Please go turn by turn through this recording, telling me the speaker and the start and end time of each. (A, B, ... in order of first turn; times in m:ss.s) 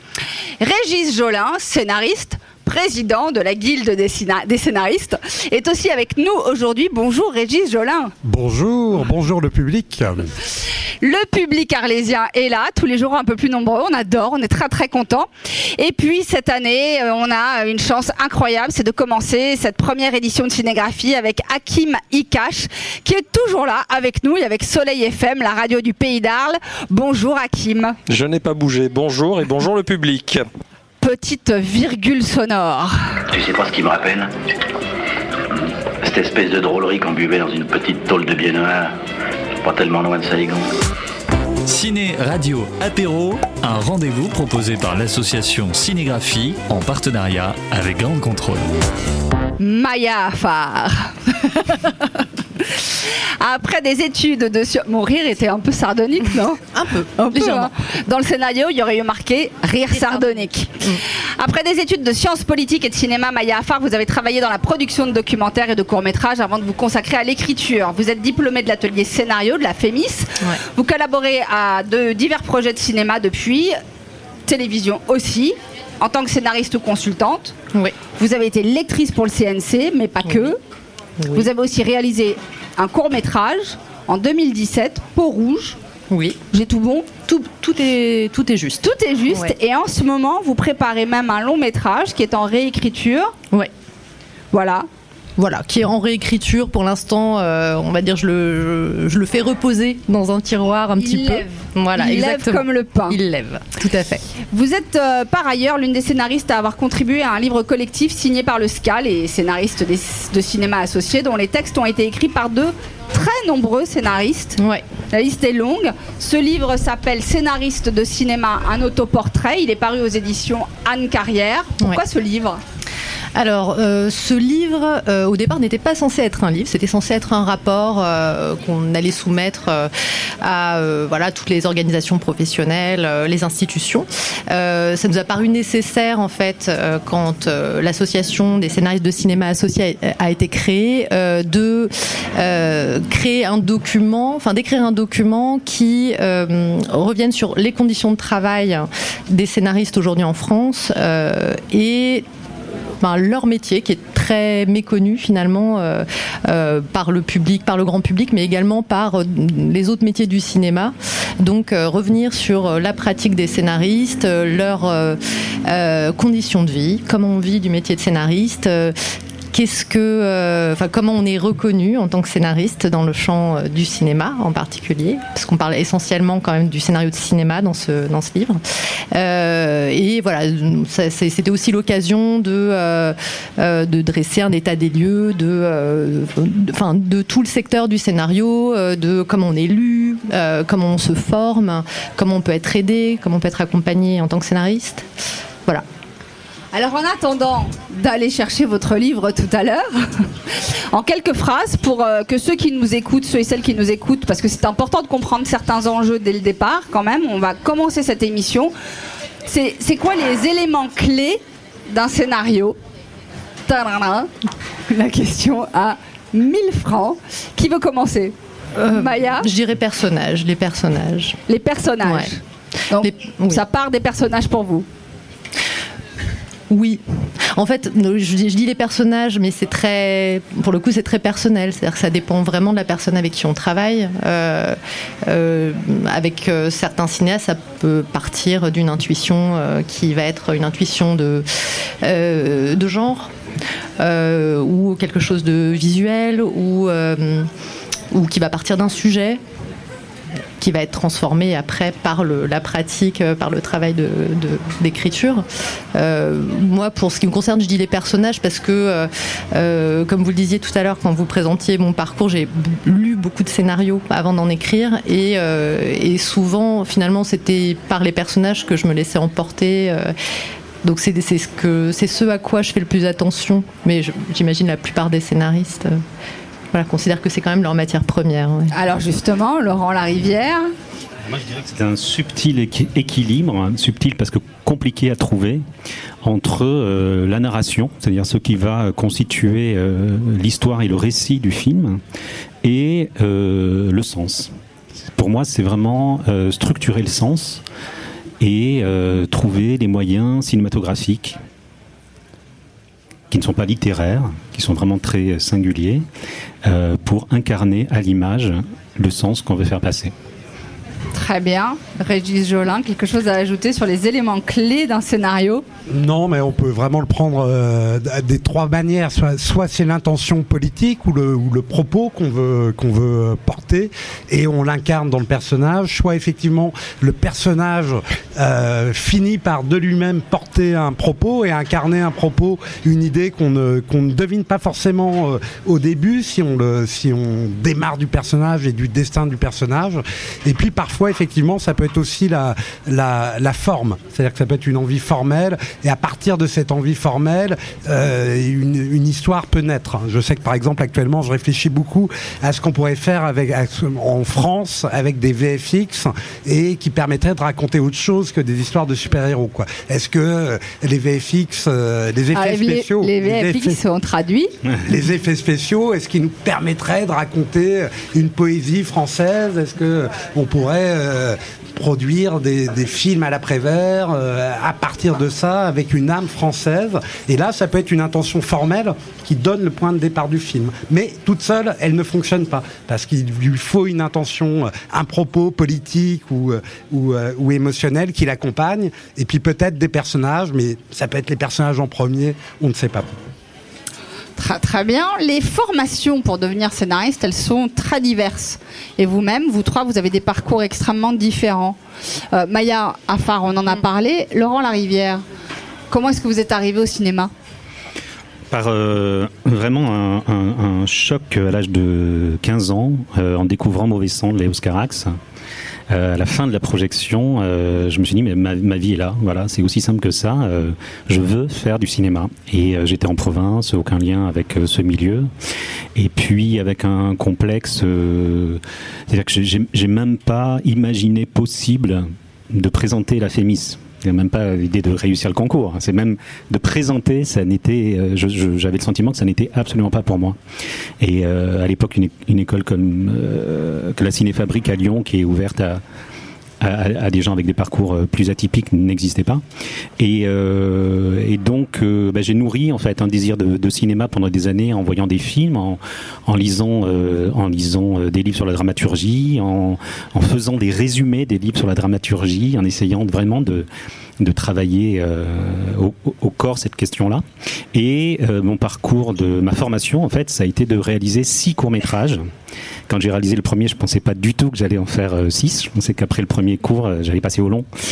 0:00.6-0:08.1 A
0:08.2-0:10.2 B
0:11.0-0:28.0 A
0:28.1-0:30.4 C
0:31.0-0:33.2 A
0:33.3-0:34.3 D
0:36.0-0:39.0 D
0:39.6-0:40.7 D
0:41.7-0:48.6 E
0:49.6-0:52.0 A
0:52.6-0:56.6 A
0:56.7-0:57.7 F
0:57.2-1:13.8 A
0:59.9-1:01.0 F
1:14.5-1:17.6 A
1:18.2-1:20.6 A
1:21.2-1:21.5 F
1:21.3-1:25.8 A
1:26.1-1:26.4 F
1:26.5-1:27.1 A
1:27.3-1:29.5 F
1:28.8-1:33.3 A
1:34.5-1:34.9 A
1:35.4-1:44.2 F
1:41.0-1:43.2 A
1:44.5-1:54.6 A
1:54.6-1:54.8 F
1:55.1-2:02.6 A
2:03.4-2:09.9 F
2:10.4-2:32.2 F
2:33.0-2:48.9 F
2:49.5-2:58.6 F
2:59.1-3:15.1 F
3:16.7-3:28.7 A
3:29.4-3:32.8 A
3:33.7-3:34.3 A
3:34.9-3:38.3 A
3:38.8-3:41.4 F
3:38.9-3:39.5 A
3:41.5-3:42.4 A
3:42.0-3:42.3 F
3:42.9-3:44.9 A
3:42.9-3:43.6 F
3:46.7-4:01.4 F
4:02.0-4:03.3 F
4:04.0-4:07.5 F
4:08.1-4:09.4 F
4:10.6-4:30.1 F
4:30.8-4:36.0 F
4:36.7-4:38.7 F
4:38.7-4:40.7 A
4:41.3-4:45.6 G
4:46.2-4:52.0 G
4:52.6-4:54.5 G
4:55.1-4:57.6 G
4:58.4-5:01.4 G
5:03.3-5:06.0 G
5:06.6-5:10.1 G
5:11.1-5:15.6 A
5:15.9-6:03.8 B
6:02.3-6:04.5 A
6:04.8-6:33.1 B
6:34.4-6:41.8 A
6:42.3-6:45.2 A
6:45.9-6:47.3 A
6:48.5-6:55.2 G
6:55.9-7:05.3 G
7:06.0-7:20.4 G
7:21.0-7:25.8 G
7:26.6-7:29.4 G
7:30.0-7:43.7 G
7:44.2-7:52.2 G
7:52.9-7:57.7 G